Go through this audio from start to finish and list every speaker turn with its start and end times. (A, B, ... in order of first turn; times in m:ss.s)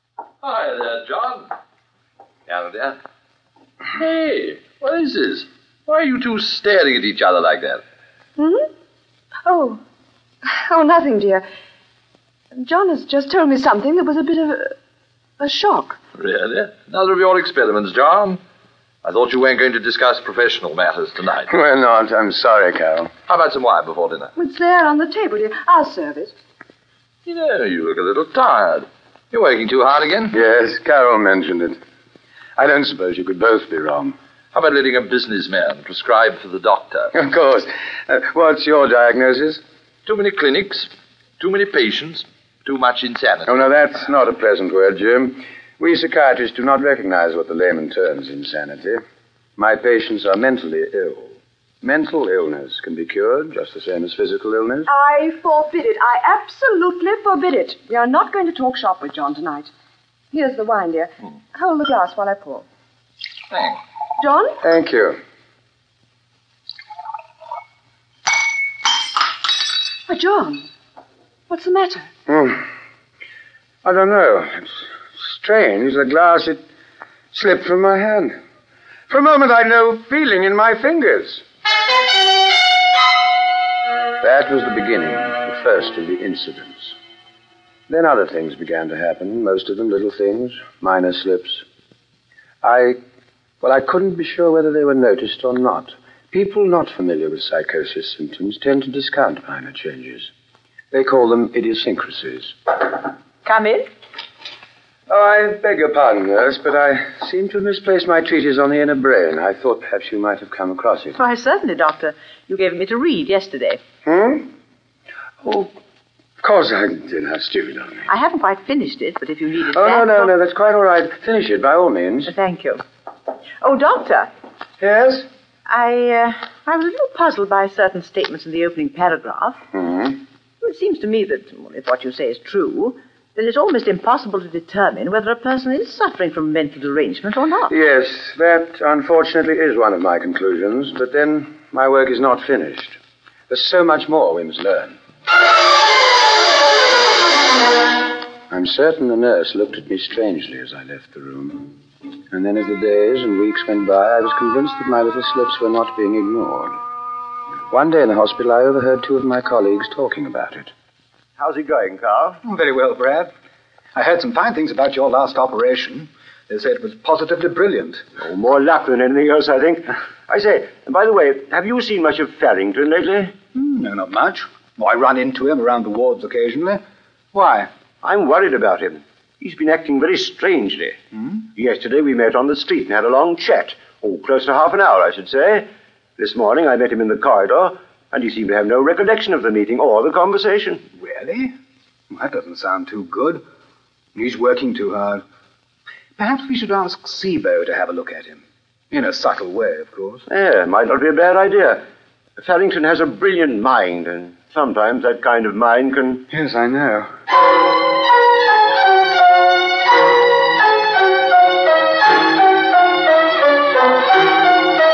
0:00.4-0:01.5 A
0:02.5-0:03.0 A
0:03.9-0:07.8 A
0:08.4-0:08.6 B
0:09.4-0:09.8 B
0:10.4-0:11.4 B
0:12.5-0:14.7 B
0:15.4-0:16.0 B
0:16.2-0:18.4 A
0:19.0-0:21.5 A
0:21.5-0:23.1 C
0:23.3-0:24.3 A
0:24.4-0:26.4 B
0:27.2-0:30.3 A
0:30.3-0:31.8 C
0:32.6-0:34.1 C
0:34.5-0:37.1 A
0:37.1-0:39.6 C
0:40.0-0:40.9 A
0:41.4-0:43.5 A
0:43.4-0:49.0 C
0:49.6-0:54.9 C
0:54.9-0:59.7 B
1:00.3-1:02.6 B
1:03.5-1:03.8 A
1:04.2-1:04.6 B
1:04.6-1:05.2 C
1:10.1-1:10.6 B
1:11.5-1:12.1 B
1:12.3-1:12.6 C
1:13.8-1:16.6 C
1:17.3-1:18.3 C
1:19.1-1:21.4 C
1:24.2-1:26.9 C
1:27.9-1:31.6 C
1:32.6-1:33.0 C
1:33.6-1:40.3 C
1:40.9-1:42.5 C
1:43.4-1:43.9 D
1:45.1-1:51.2 C
1:51.1-1:53.8 D
1:54.0-1:54.4 C
1:55.4-1:55.7 C
1:56.4-1:58.1 C
1:58.1-2:00.3 D
1:59.7-2:02.3 C
2:02.2-2:02.8 D
2:03.6-2:04.3 D
2:04.8-2:05.2 C
2:05.7-2:09.6 D
2:09.7-2:10.2 C
2:10.6-2:17.7 D
2:17.7-2:23.0 C
2:23.5-2:25.0 C
2:28.5-2:31.8 C
2:32.3-2:36.8 C
2:37.7-2:40.7 C
2:41.4-2:42.4 E
2:42.4-2:43.3 F
2:43.9-2:48.0 F
2:48.2-2:53.4 E
2:53.5-2:56.8 F
2:57.3-2:57.7 F
2:58.0-3:01.0 E
3:01.5-3:10.8 E
3:11.0-3:11.5 F
3:12.1-3:13.4 F
3:14.1-3:15.2 F
3:16.2-3:20.2 F
3:20.3-3:21.8 E
3:22.4-3:26.2 E
3:26.3-3:27.1 C